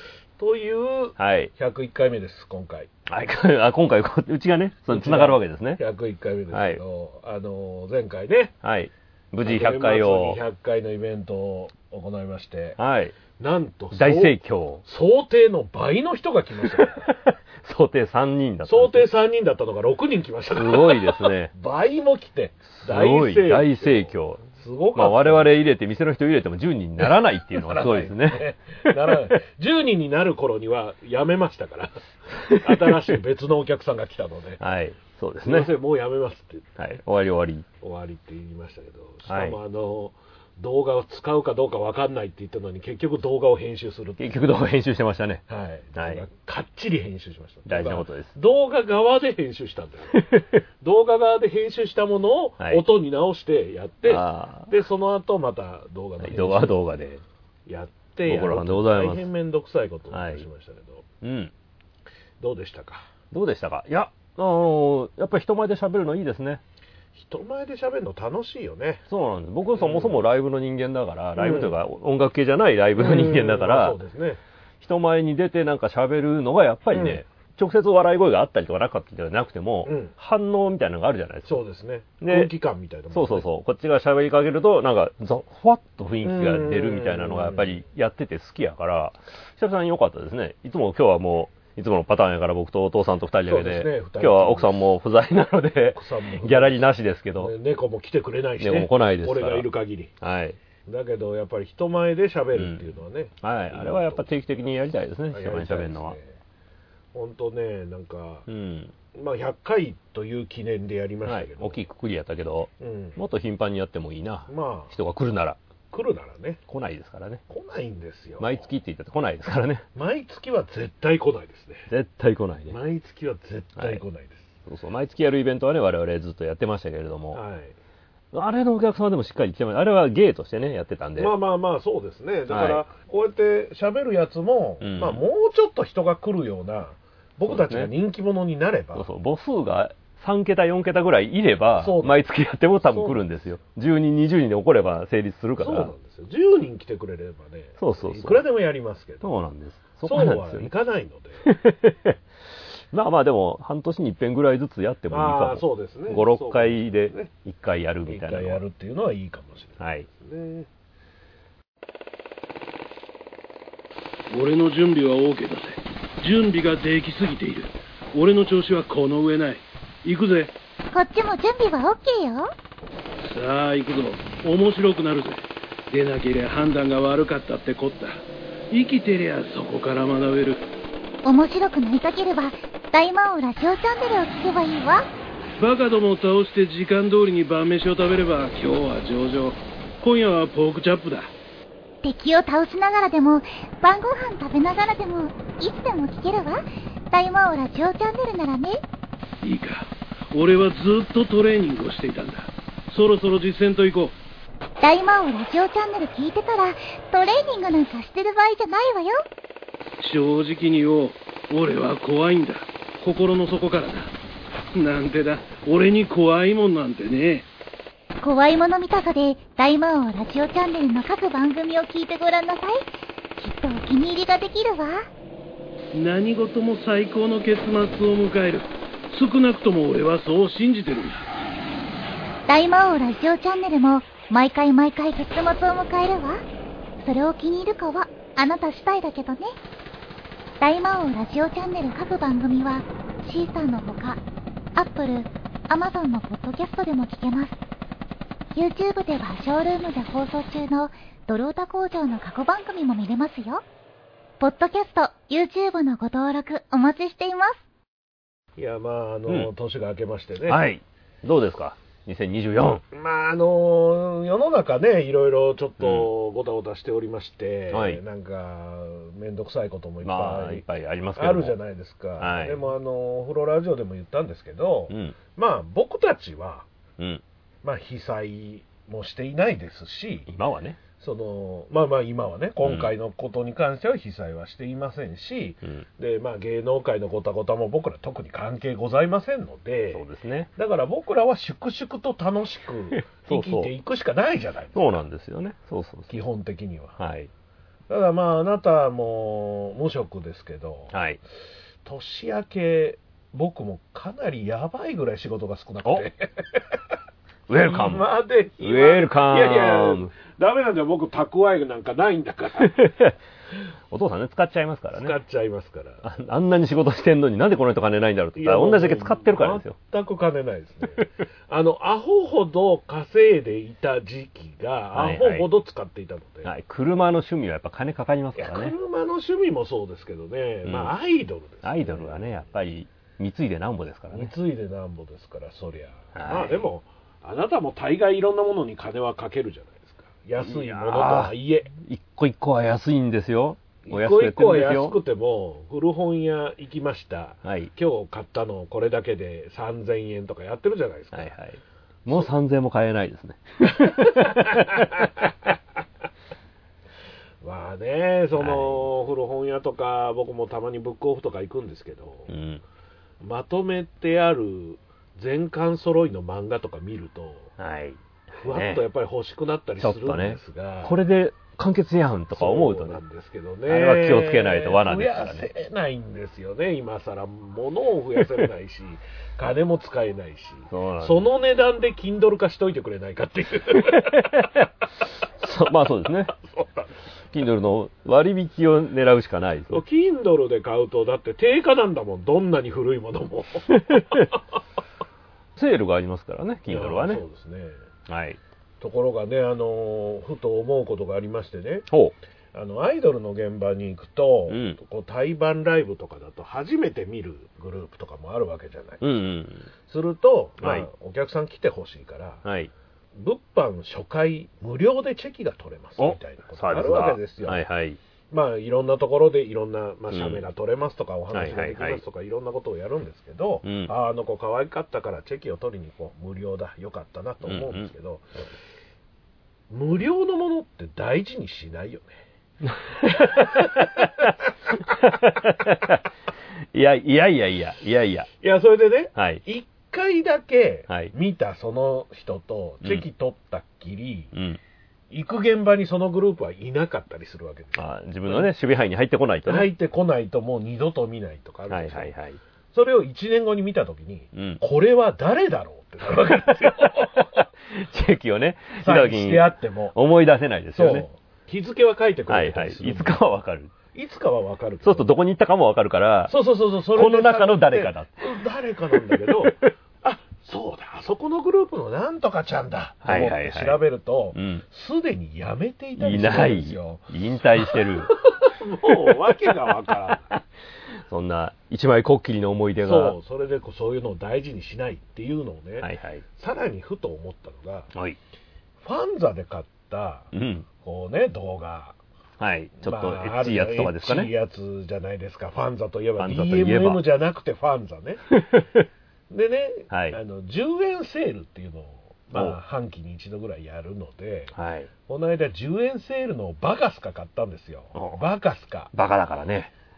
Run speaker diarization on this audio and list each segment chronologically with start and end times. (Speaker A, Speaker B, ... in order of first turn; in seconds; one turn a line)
Speaker A: 0.4-2.9
Speaker B: 1.2-1.5
Speaker B: 3.1-5.8
Speaker A: 4.9-8.5
Speaker B: 6.5-6.8
Speaker B: 8.6-10.4
Speaker A: 9.4-12.8
Speaker B: 12.8-13.1
Speaker A: 13.4-17.1
Speaker B: 13.9-14.8
Speaker B: 16.6-19.1
Speaker A: 18.6-25.5
Speaker B: 20.5-21.5
Speaker B: 22.8-29.3
Speaker A: 27.5-34.6
Speaker B: 32.5-32.9
Speaker B: 34.6-35.7
Speaker A: 35.4-36.7
Speaker B: 36.8-37.6
Speaker A: 37.8-44.4
Speaker B: 39.2-39.6
Speaker B: 44.2-45.4
Speaker A: 45.5-56.8
Speaker B: 46.0-46.2
Speaker B: 47.6-48.3
Speaker B: 54.0-54.7
Speaker B: 56.2-57.2
Speaker A: 57.7-61.0
Speaker B: 58.3-59.3
Speaker B: 60.1-60.4
Speaker B: 61.2-61.5
Speaker A: 62.4-63.0
Speaker B: 63.3-66.6
Speaker A: 67.1-69.0
Speaker B: 69.1-74.0
Speaker A: 69.8-70.2
Speaker A: 71.4-71.7
Speaker A: 73.0-74.4
Speaker B: 74.8-81.6
Speaker A: 76.9-77.2
Speaker A: 79.8-80.1
Speaker A: 81.5-83.5
Speaker B: 82.2-82.5
Speaker B: 83.1-97.5
Speaker A: 86.2-87.8
Speaker A: 93.5-94.8
Speaker A: 95.9-96.8
Speaker A: 97.4-100.1
Speaker B: 98.6-99.7
Speaker B: 100.2-100.6
Speaker A: 100.8-104.3
Speaker B: 102.5-102.8
Speaker B: 103.4-106.2
Speaker A: 105.3-106.3
Speaker A: 107.1-108.5
Speaker B: 108.5-108.9
Speaker A: 109.1-111.8
Speaker B: 111.2-115.6
Speaker A: 112.8-113.2
Speaker A: 114.5-114.9
Speaker A: 115.9-116.6
Speaker B: 116.7-117.4
Speaker A: 117.5-118.7
Speaker B: 118.4-119.8
Speaker A: 119.9-121.9
Speaker B: 121.9-122.8
Speaker A: 122.7-124.5
Speaker B: 123.8-124.0
Speaker B: 124.7-127.4
Speaker A: 127.3-127.7
Speaker B: 128.3-131.3
Speaker A: 131.2-139.1
Speaker B: 132.5-132.8
Speaker B: 134.8-135.2
Speaker B: 137.4-137.9
Speaker B: 138.9-145.9
Speaker A: 141.8-142.2
Speaker A: 142.8-143.2
Speaker A: 145.6-149.3
Speaker B: 147.8-148.4
Speaker B: 149.2-150.7
Speaker A: 150.0-151.5
Speaker B: 151.4-152.2
Speaker B: 152.9-158.6
Speaker A: 155.1-157.3
Speaker A: 158.1-160.7
Speaker B: 159.8-160.1
Speaker C: 164.3-170.5
Speaker D: 170.9-172.5
Speaker C: 173.2-180.6
Speaker D: 181.2-185.1
Speaker C: 185.6-191.3
Speaker D: 192.0-198.8
Speaker C: 199.4-204.2
Speaker D: 204.8-209.2
Speaker C: 210.0-214.1
Speaker C: 214.7-217.5
Speaker D: 218.2-222.8
Speaker D: 223.4-225.1
Speaker C: 225.9-231.2
Speaker D: 232.5-236.4
Speaker D: 237.0-239.5
Speaker D: 240.6-244.2
Speaker D: 244.7-247.6
Speaker D: 248.5-253.6
Speaker D: 254.4-257.6
Speaker A: 258.6-260.6
Speaker B: 260.5-262.8
Speaker A: 262.9-270.6
Speaker B: 265.8-266.1
Speaker B: 267.7-268.0
Speaker B: 270.0-271.6
Speaker A: 271.1-276.7
Speaker B: 272.2-272.7
Speaker B: 274.9-275.1
Speaker B: 277.0-277.2
Speaker A: 277.6-280.3
Speaker B: 280.3-280.8
Speaker A: 281.0-294.9
Speaker B: 282.6-282.9
Speaker B: 289.9-290.5
Speaker B: 293.1-293.7
Speaker B: 294.7-296.1
Speaker A: 296.1-296.9
Speaker B: 297.0-297.3
Speaker A: 297.9-300.9
Speaker B: 300.9-301.2
Speaker A: 301.8-306.6
Speaker B: 307.5-308.1
Speaker A: 307.6-312.8
Speaker B: 308.6-310.1
Speaker B: 312.6-313.1
Speaker B: 313.9-315.1
Speaker A: 314.9-316.0
Speaker B: 316.0-319.8
Speaker A: 318.4-326.5
Speaker B: 324.9-325.5
Speaker B: 326.4-328.7
Speaker A: 328.4-332.4
Speaker B: 330.6-330.9
Speaker B: 331.6-334.3
Speaker A: 334.1-341.7
Speaker B: 336.1-336.6
Speaker B: 340.4-345.0
Speaker A: 343.8-351.3
Speaker B: 347.4-347.7
Speaker B: 351.1-355.2
Speaker A: 353.9-355.3
Speaker A: 357.4-362.3
Speaker B: 358.4-358.9
Speaker B: 362.3-362.6
Speaker A: 363.2-367.5
Speaker B: 367.6-368.8
Speaker A: 368.3-371.0
Speaker B: 369.8-373.0
Speaker A: 372.3-384.6
Speaker B: 373.7-375.4
Speaker B: 380.7-381.2
Speaker B: 383.9-384.6
Speaker B: 385.4-386.3
Speaker A: 386.3-386.9
Speaker B: 387.3-389.8
Speaker A: 389.7-394.3
Speaker B: 393.9-394.3
Speaker B: 395.6-397.2
Speaker A: 396.7-397.8
Speaker B: 398.1-398.4
Speaker A: 398.8-401.9
Speaker B: 401.9-402.1
Speaker A: 402.5-409.0
Speaker B: 404.5-404.8
Speaker B: 409.0-409.7
Speaker A: 409.9-412.4
Speaker B: 410.6-410.9
Speaker B: 412.4-412.7
Speaker A: 413.1-417.6
Speaker B: 416.0-418.0
Speaker A: 418.3-428.3
Speaker B: 420.1-420.4
Speaker B: 421.3-422.0
Speaker B: 423.6-423.9
Speaker B: 427.4-427.9
Speaker A: 429.7-432.1
Speaker B: 432.9-436.0
Speaker A: 433.2-434.2
Speaker B: 436.7-438.3
Speaker A: 438.4-444.3
Speaker B: 439.1-439.4
Speaker B: 440.9-441.1
Speaker B: 444.3-444.6
Speaker A: 445.1-448.5
Speaker B: 447.7-449.7
Speaker A: 449.4-452.1
Speaker B: 451.7-452.4
Speaker A: 452.7-457.4
Speaker B: 454.3-454.6
Speaker B: 456.6-457.0
Speaker B: 457.6-461.1
Speaker A: 458.8-459.9
Speaker A: 460.7-463.2
Speaker B: 462.3-463.7
Speaker A: 463.9-465.1
Speaker B: 464.8-466.3
Speaker A: 466.3-477.1
Speaker B: 466.9-468.3
Speaker B: 468.9-469.5
Speaker B: 473.0-473.8
Speaker B: 474.3-474.6
Speaker B: 476.0-478.1
Speaker A: 477.6-480.3
Speaker B: 478.9-480.4
Speaker B: 481.1-483.2
Speaker A: 482.8-487.9
Speaker B: 485.8-486.2
Speaker A: 488.8-492.0
Speaker B: 490.3-490.6
Speaker B: 492.4-494.3
Speaker A: 492.8-498.2
Speaker B: 496.2-497.0
Speaker B: 498.3-498.8
Speaker A: 499.3-504.5
Speaker B: 499.9-500.2
Speaker B: 504.5-504.9
Speaker A: 505.1-508.9
Speaker B: 507.9-508.2
Speaker B: 508.9-509.7